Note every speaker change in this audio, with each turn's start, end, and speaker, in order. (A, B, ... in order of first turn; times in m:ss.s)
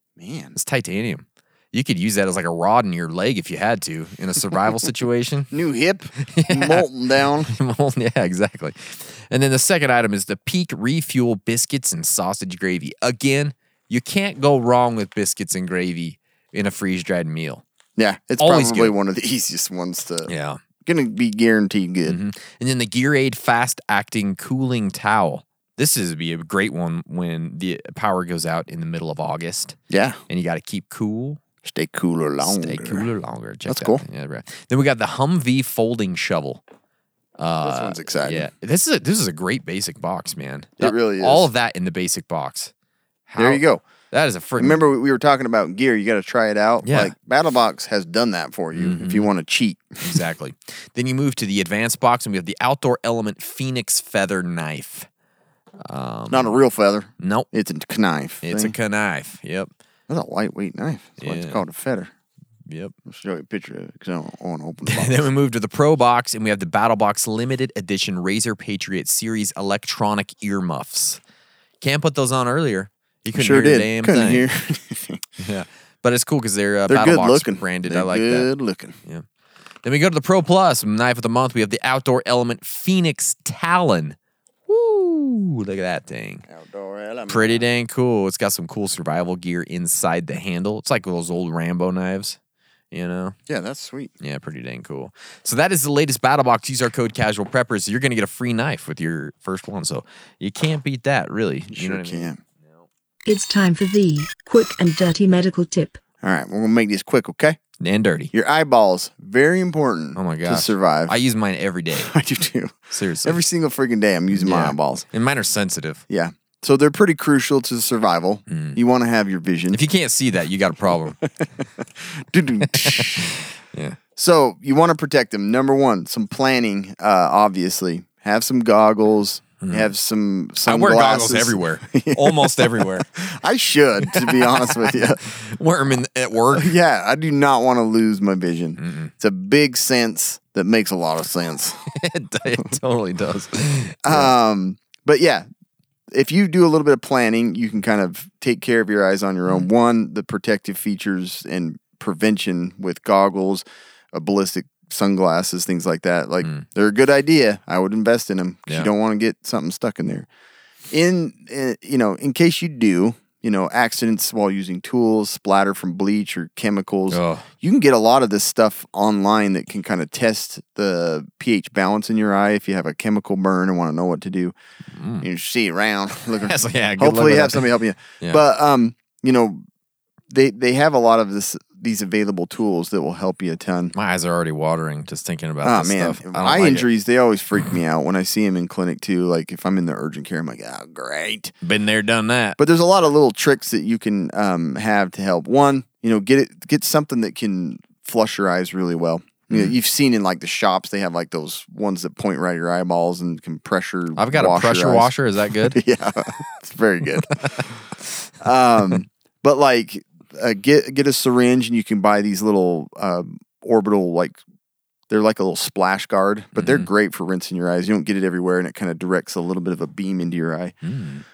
0:00.2-0:00.6 A
0:00.6-0:05.5 B
0:05.5-0:07.5 A
0:06.2-0:06.9 B
0:07.5-0:17.6 B
0:18.0-0:20.3 A
0:18.4-0:18.9 B
0:20.3-0:20.6 B
0:20.8-0:22.2 A
0:22.0-0:29.8 B
0:29.9-0:30.2 A
0:30.3-0:31.4 B
0:31.6-0:33.1 A
0:32.4-0:36.6 B
0:33.7-0:34.0 A
0:37.4-0:42.7 B
0:37.6-0:38.5 A
0:40.8-0:41.5 A
0:43.3-0:44.8 B
0:43.4-0:43.8 A
0:44.6-0:50.2 A
0:46.8-0:47.1 B
0:48.8-0:49.3 B
0:50.0-0:55.1 B
0:55.8-0:56.6 B
0:56.3-0:58.8 A
0:57.2-0:57.5 B
0:58.4-0:59.7 B
1:00.1-1:02.1 A
1:01.2-1:01.6 B
1:02.7-1:02.9 B
1:03.0-1:05.3 A
1:04.8-1:11.2 B
1:11.8-1:14.4 B
1:13.3-1:15.2 A
1:15.4-1:18.5 B
1:16.9-1:19.0 A
1:19.8-1:24.2 B
1:24.7-1:26.4 B
1:26.5-1:27.7 A
1:27.3-1:32.4 B
1:32.9-1:33.4 B
1:33.5-1:34.1 A
1:34.2-1:42.8 B
1:41.7-1:42.4 A
1:43.2-1:46.0 C
1:46.2-1:47.6 A
1:47.8-1:48.3 B
1:48.3-1:51.1 A
1:50.2-1:52.1 B
1:52.0-1:55.1 A
1:52.9-1:53.4 B
1:54.3-1:56.0 B
1:56.1-1:59.8 A
1:58.5-1:58.8 B
1:59.7-2:01.2 B
2:01.2-2:03.3 A
2:02.7-2:04.0 B
2:04.2-2:15.2 A
2:09.6-2:09.9 B
2:10.6-2:13.1 B
2:14.1-2:16.7 B
2:16.5-2:21.8 A
2:18.8-2:19.1 B
2:21.9-2:24.3 B
2:24.0-2:25.4 A
2:26.1-2:40.3 A
2:40.9-2:54.5 A
2:47.1-2:47.4 B
2:54.9-2:55.3 B
2:55.2-2:59.6 A
2:56.4-2:57.7 B
3:00.3-3:03.9 A
3:03.9-3:06.9 B
3:05.6-3:11.5 A
3:11.6-3:12.6 B
3:12.6-3:25.1 A
3:24.2-3:25.8 B
3:25.6-3:27.7 A
3:28.4-3:34.4 A
3:35.1-3:40.8 A
3:36.5-3:36.9 B
3:40.8-3:41.2 B